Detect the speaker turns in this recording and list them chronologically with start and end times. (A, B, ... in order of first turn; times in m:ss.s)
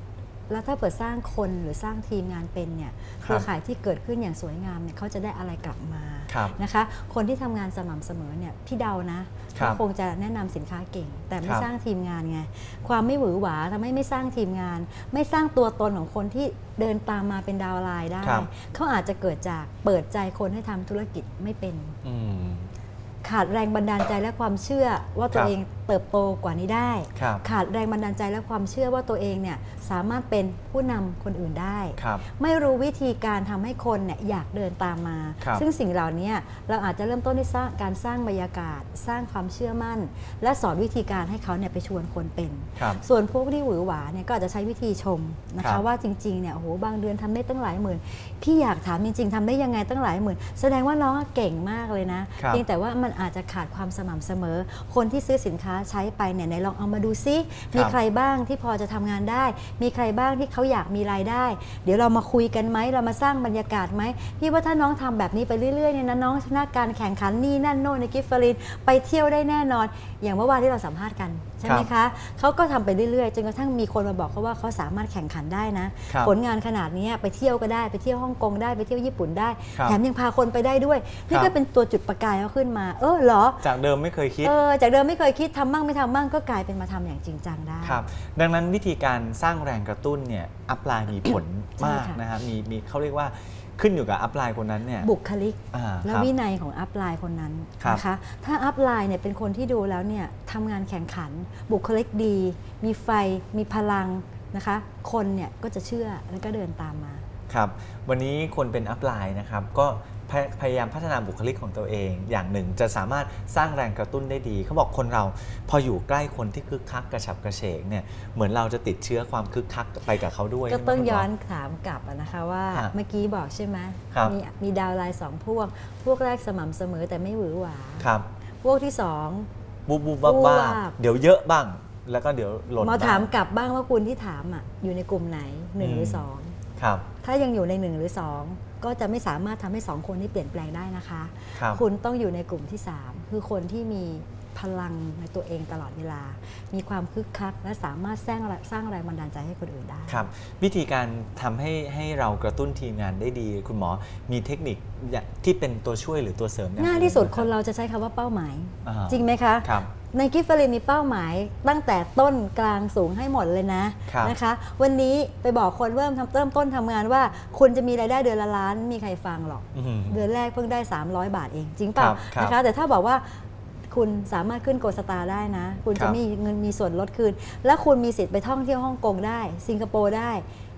0:00.5-0:22.0 A
0:06.3-0:06.6 B
0:09.5-0:09.8 B
0:11.4-0:11.7 B
0:18.2-0:18.5 B
0:22.0-0:22.7 B
0:23.2-1:23.6 A
0:27.1-0:27.4 B
0:32.0-0:32.2 B
0:42.8-0:43.0 B
0:45.6-0:45.8 B
0:52.4-0:52.6 B
1:16.1-1:16.3 B
1:23.6-1:24.5 B
1:24.4-1:28.0 A
1:27.8-1:35.1 B
1:31.8-1:32.2 A
1:35.0-1:47.2 A
1:35.7-1:36.3 B
1:47.5-2:01.3 B
2:00.7-2:08.1 A
2:08.0-2:08.3 B
2:08.6-2:09.5 A
2:09.9-2:13.3 B
2:10.2-2:11.0 A
2:12.8-2:16.6 A
2:15.8-2:17.1 B
2:17.2-2:30.2 A
2:21.5-2:21.8 B
2:30.1-2:37.5 B
2:36.8-3:00.4 A
2:38.8-2:39.9 B
2:44.1-2:44.4 B
2:49.7-2:50.2 B
2:52.0-2:52.6 B